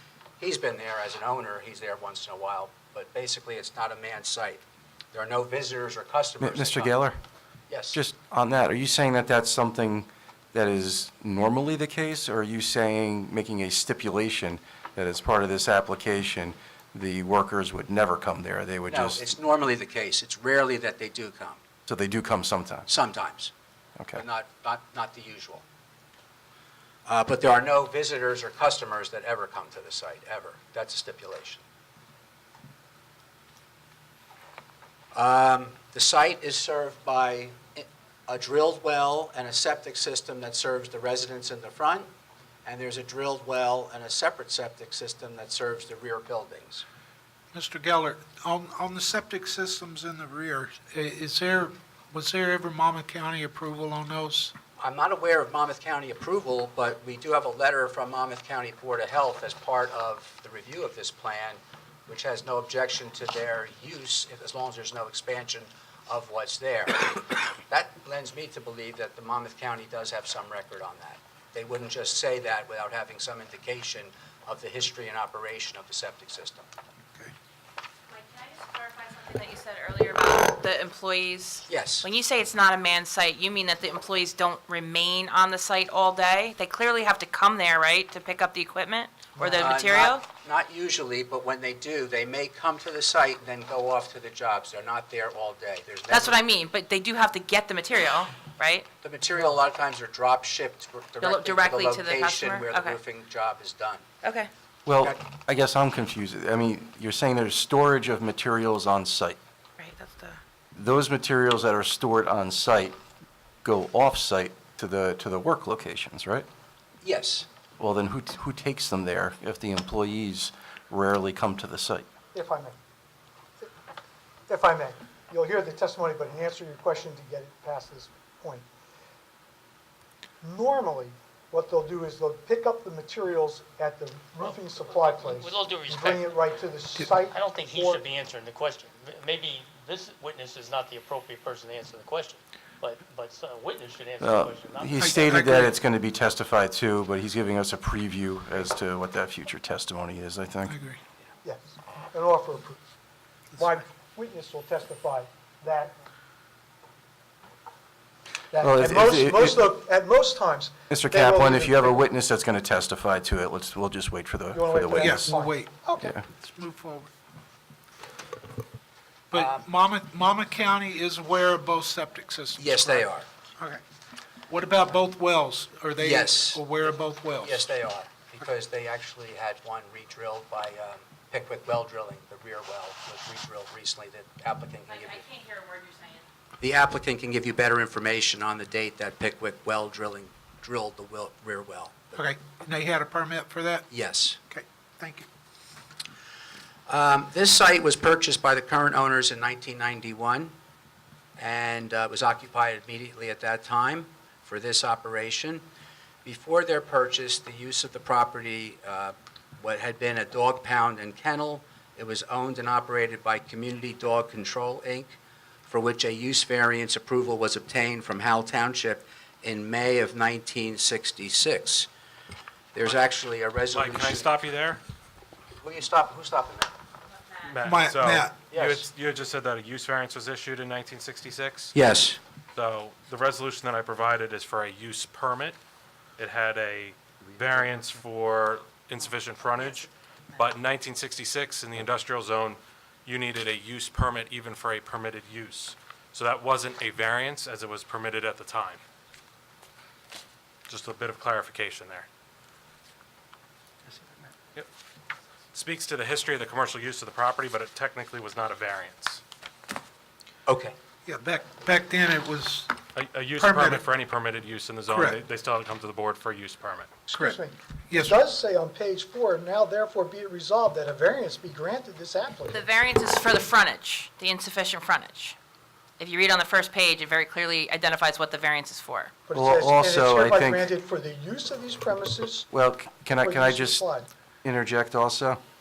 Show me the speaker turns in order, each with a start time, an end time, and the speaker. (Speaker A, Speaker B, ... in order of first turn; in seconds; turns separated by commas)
Speaker A: 0.4-4.6, Speaker A: 5.1-6.9, Speaker B: 6.4-7.2, Speaker A: 7.7-8.0, Speaker B: 7.9-19.2, Speaker A: 18.9-21.6, Speaker B: 21.9-22.9, Speaker A: 22.9-23.5, Speaker A: 24.1-25.6, Speaker A: 27.1-31.6, Speaker A: 35.1-42.1, Speaker A: 42.6-46.8, Speaker C: 47.5-54.5, Speaker A: 54.8-76.7, Speaker D: 78.1-90.2, Speaker A: 81.7-82.0, Speaker A: 89.4-96.4, Speaker D: 96.1-98.9, Speaker A: 99.0-104.0, Speaker D: 101.2-103.0, Speaker D: 104.2-104.5, Speaker B: 104.8-109.4, Speaker D: 109.8-110.4, Speaker B: 110.7-113.0, Speaker B: 113.6-116.5, Speaker A: 117.0-117.5, Speaker B: 117.8-122.0, Speaker E: 122.3-122.8, Speaker E: 124.5-128.6, Speaker E: 130.4-138.0, Speaker F: 134.4-136.4, Speaker F: 137.2-145.5, Speaker B: 144.2-150.7, Speaker C: 144.9-145.7, Speaker C: 150.7-151.0, Speaker E: 151.4-152.8, Speaker E: 153.6-155.9, Speaker E: 158.5-162.0, Speaker B: 158.6-159.8, Speaker B: 160.9-165.3, Speaker E: 164.5-166.1, Speaker C: 164.9-167.1, Speaker B: 166.0-166.2, Speaker C: 169.3-173.8, Speaker A: 169.3-169.7, Speaker A: 172.6-173.3, Speaker C: 174.5-177.7, Speaker A: 176.0-176.6, Speaker A: 177.4-185.2, Speaker D: 184.8-186.2, Speaker A: 186.6-192.2, Speaker C: 192.1-193.8, Speaker A: 193.9-194.4, Speaker C: 194.5-195.2, Speaker A: 196.9-200.5, Speaker A: 201.4-205.6, Speaker A: 206.2-221.9, Speaker A: 222.7-224.3, Speaker G: 223.7-224.8, Speaker A: 225.6-226.7, Speaker G: 227.4-231.7, Speaker C: 227.6-228.3, Speaker A: 228.5-228.9, Speaker A: 231.7-232.2, Speaker G: 232.5-235.6, Speaker G: 236.2-248.8, Speaker G: 250.7-252.1, Speaker G: 255.5-259.2, Speaker A: 260.5-260.7, Speaker C: 261.1-262.8, Speaker G: 262.9-266.9, Speaker C: 263.4-263.8, Speaker C: 264.9-265.2, Speaker C: 267.1-268.2, Speaker E: 267.1-272.7, Speaker D: 272.5-275.4, Speaker D: 276.0-279.1, Speaker E: 279.2-282.5, Speaker B: 279.3-280.7, Speaker B: 282.5-283.8, Speaker E: 283.2-284.1, Speaker B: 284.4-285.4